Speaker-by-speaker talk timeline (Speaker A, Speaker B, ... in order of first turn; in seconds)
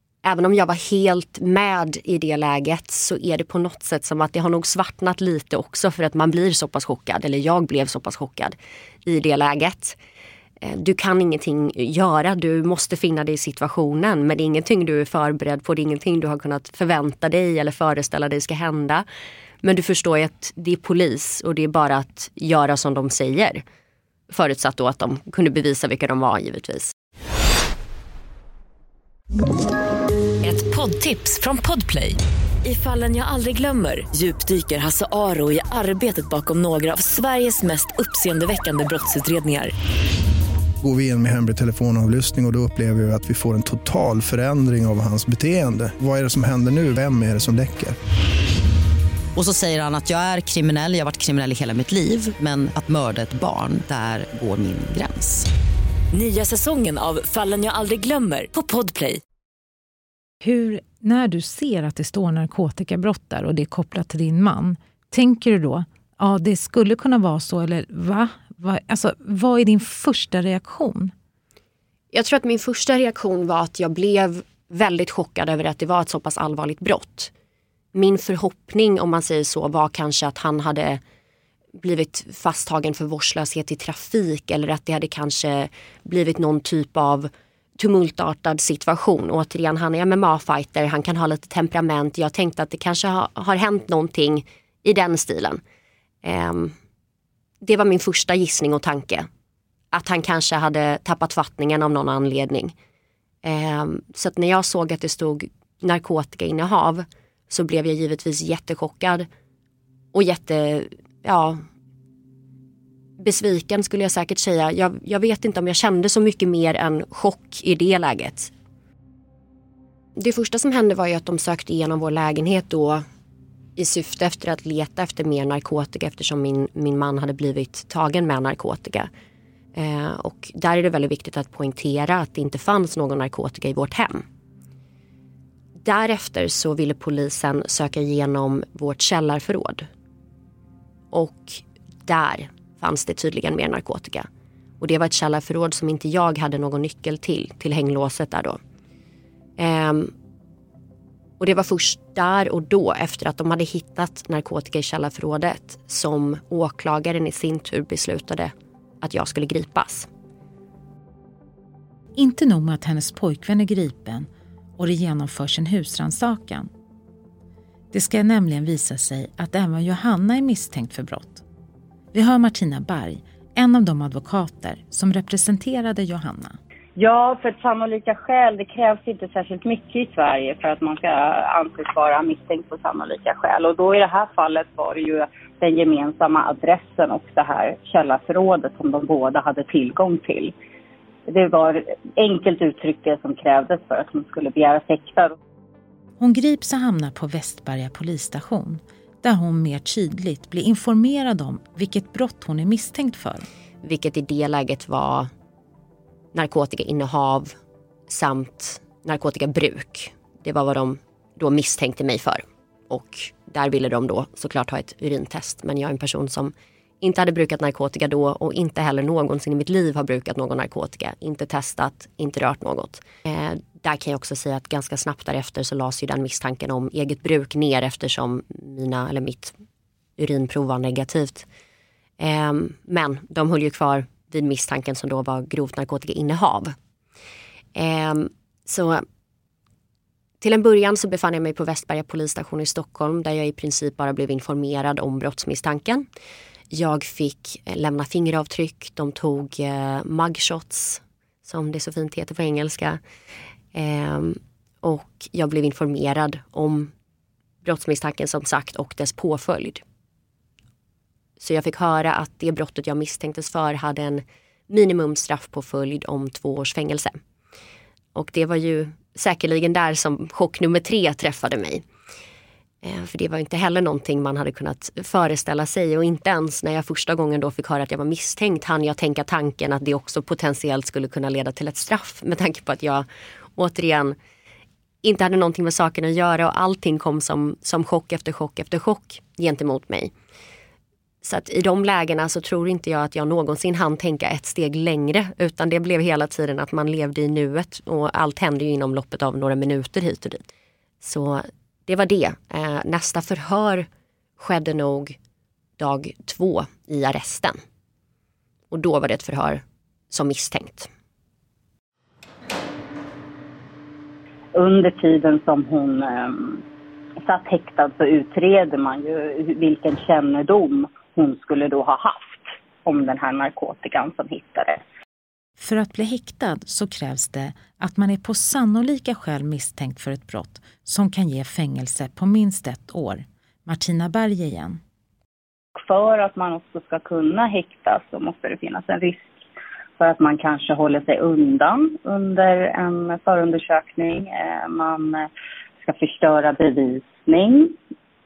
Speaker A: 0.2-10.0, 10.6-19.0, 19.6-23.6, 24.3-26.9, 72.1-77.3, 77.9-81.0, 81.7-95.6, 96.2-96.7, 97.6-99.3, 99.9-102.7, 103.4-109.3, 110.1-111.6, 113.2-118.5, 120.2-123.0, 123.8-129.1, 129.7-134.2, 135.8-139.9, 141.1-144.3, 144.8-148.6, 149.6-150.1, 151.4-160.1, 203.8-205.3, 206.3-207.5, 208.1-229.6, 230.2-231.5, 232.2-236.7, 237.7-239.0, 240.4-246.0, 246.7-253.0, 253.7-256.9, 257.6-259.8, 261.4-267.1, 268.1-271.8, 272.8-284.2, 285.0-290.1, 291.2-300.5, 301.0-305.2, 305.8-307.6, 308.7-310.9
Speaker B: 30.4-39.7, 56.1-59.2
Speaker C: 40.8-48.0
Speaker D: 49.3-55.5
Speaker E: 60.4-71.1, 162.2-166.7, 167.9-171.4, 172.1-176.6, 196.2-203.5, 325.6-334.8
Speaker F: 176.9-190.5, 191.3-195.3, 314.5-316.6, 317.2-324.8, 335.8-339.4, 340.0-345.3, 345.8-347.7